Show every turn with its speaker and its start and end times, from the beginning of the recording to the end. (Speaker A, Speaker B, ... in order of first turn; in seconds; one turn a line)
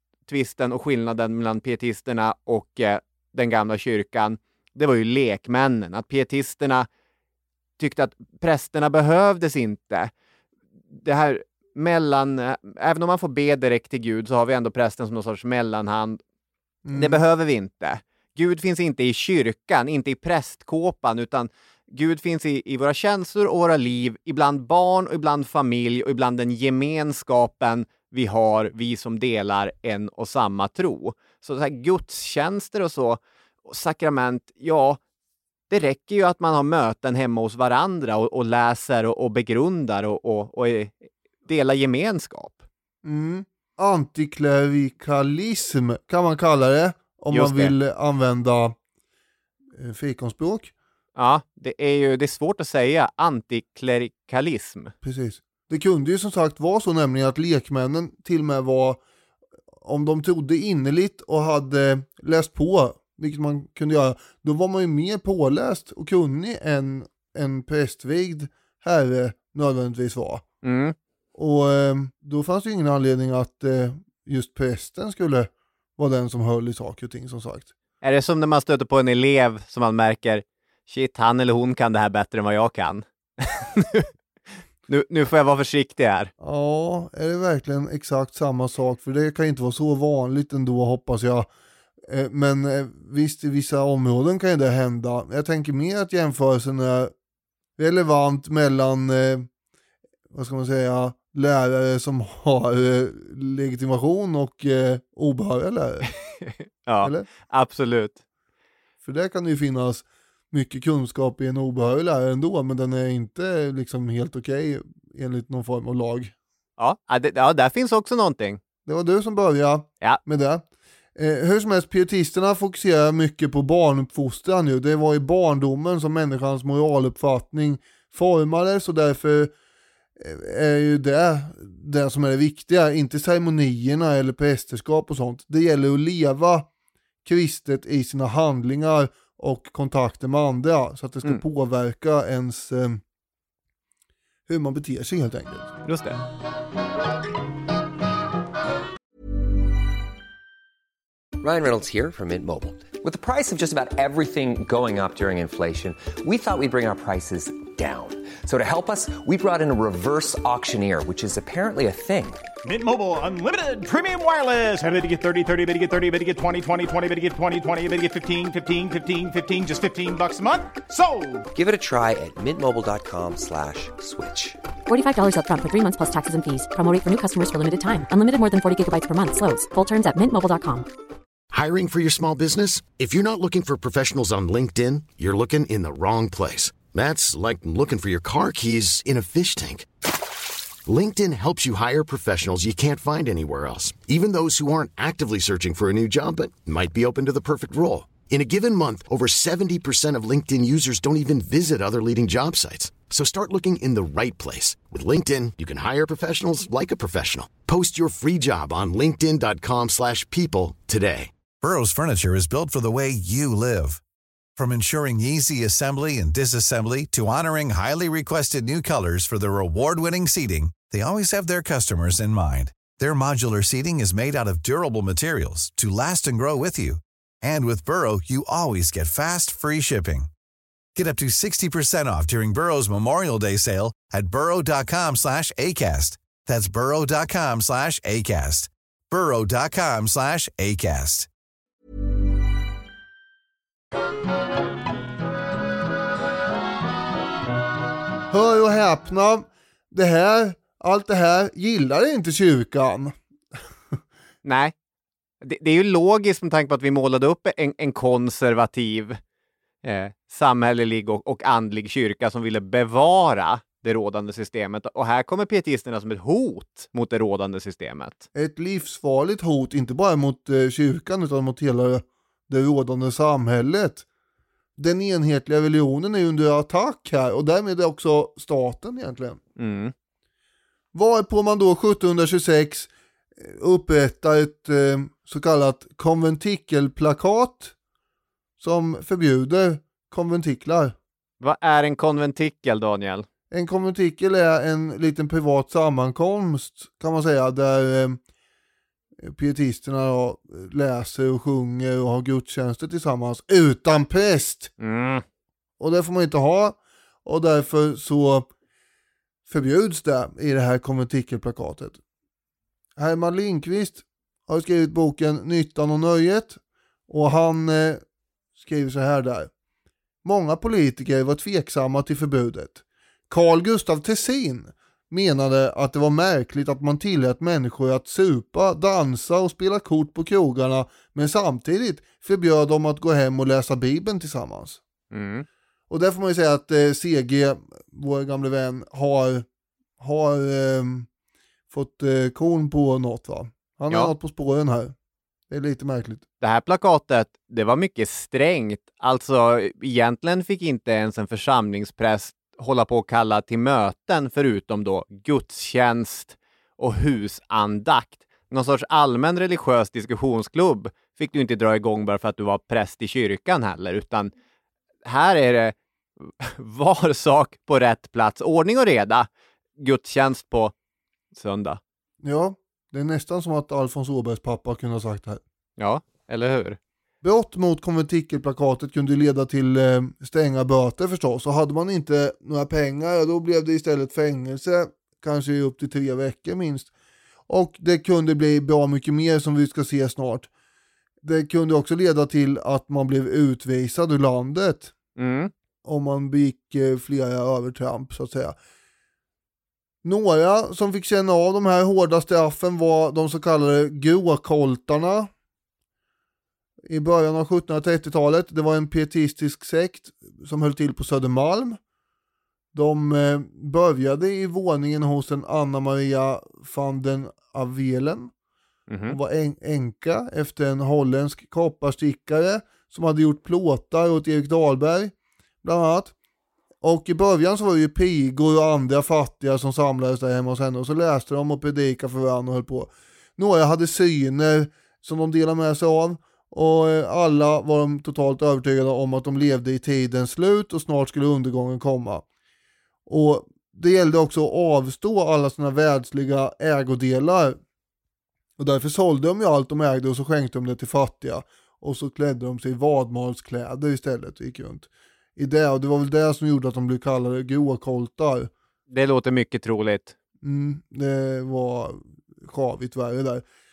Speaker A: 0.3-6.9
Speaker A: 7.8-10.1
Speaker A: 10.9-16.2
Speaker B: 16.9-17.2
Speaker A: 16.9-35.0
Speaker A: 35.7-42.6
Speaker B: 43.0-48.8
Speaker A: 47.3-47.8
Speaker B: 49.7-50.7
Speaker A: 51.2-54.9
Speaker B: 55.0-59.0
Speaker B: 59.8-70.4
Speaker A: 70.6-71.0
Speaker B: 71.3-77.7
Speaker A: 78.0-84.1
Speaker A: 84.9-86.3
Speaker B: 86.4-91.5
Speaker B: 92.0-97.1
Speaker B: 97.8-99.5
Speaker B: 100.3-106.1
Speaker A: 106.4-108.2
Speaker B: 109.0-116.3
Speaker A: 116.8-118.6
Speaker B: 118.9-120.7
Speaker B: 121.2-129.5
Speaker B: 130.2-136.7
Speaker B: 137.2-143.0
Speaker B: 144.5-145.7
Speaker A: 145.8-146.2
Speaker C: 151.4-162.4
Speaker D: 162.6-171.5
Speaker C: 171.5-174.6
Speaker E: 174.9-180.9
Speaker F: 181.5-189.9
Speaker F: 190.9-211.3
Speaker G: 211.6-214.0
Speaker G: 214.6-230.3
Speaker G: 231.0-241.3
Speaker B: 248.3-253.2
Speaker A: 254.4-254.7
Speaker A: 255.4-259.2
Speaker A: 259.8-268.3
Speaker B: 268.4-274.1
Speaker B: 274.8-279.4
Speaker A: 279.6-279.9
Speaker B: 280.9-287.7
Speaker B: 288.6-291.0
Speaker A: 291.4-293.3
Speaker B: 293.5-298.2
Speaker B: 299.2-304.7
Speaker A: 304.8-305.2
Speaker B: 305.8-308.5
Speaker B: 309.5-312.0
Speaker B: 313.0-318.0
Speaker B: 318.6-319.5
Speaker B: 320.2-334.8
Speaker A: 335.1-335.5
Speaker B: 335.9-339.5
Speaker B: 340.0-341.1
Speaker B: 341.7-344.9
Speaker B: 345.5-346.2
Speaker A: 346.4-364.3
Speaker A: 365.1-369.3
Speaker A: 369.8-370.7
Speaker A: 371.3-371.8
Speaker B: 372.2-375.4
Speaker A: 375.8-376.8
Speaker B: 377.2-386.9
Speaker B: 387.5-390.5
Speaker B: 391.2-394.9
Speaker A: 395.2-395.5
Speaker B: 395.8-398.6
Speaker B: 400.0-405.3
Speaker B: 406.9-411.8
Speaker B: 412.7-418.3
Speaker A: 418.9-419.2
Speaker B: 419.1-426.1
Speaker B: 426.8-442.2
Speaker B: 443.1-447.6
Speaker B: 448.6-458.5
Speaker A: 458.9-460.1
Speaker B: 460.4-463.4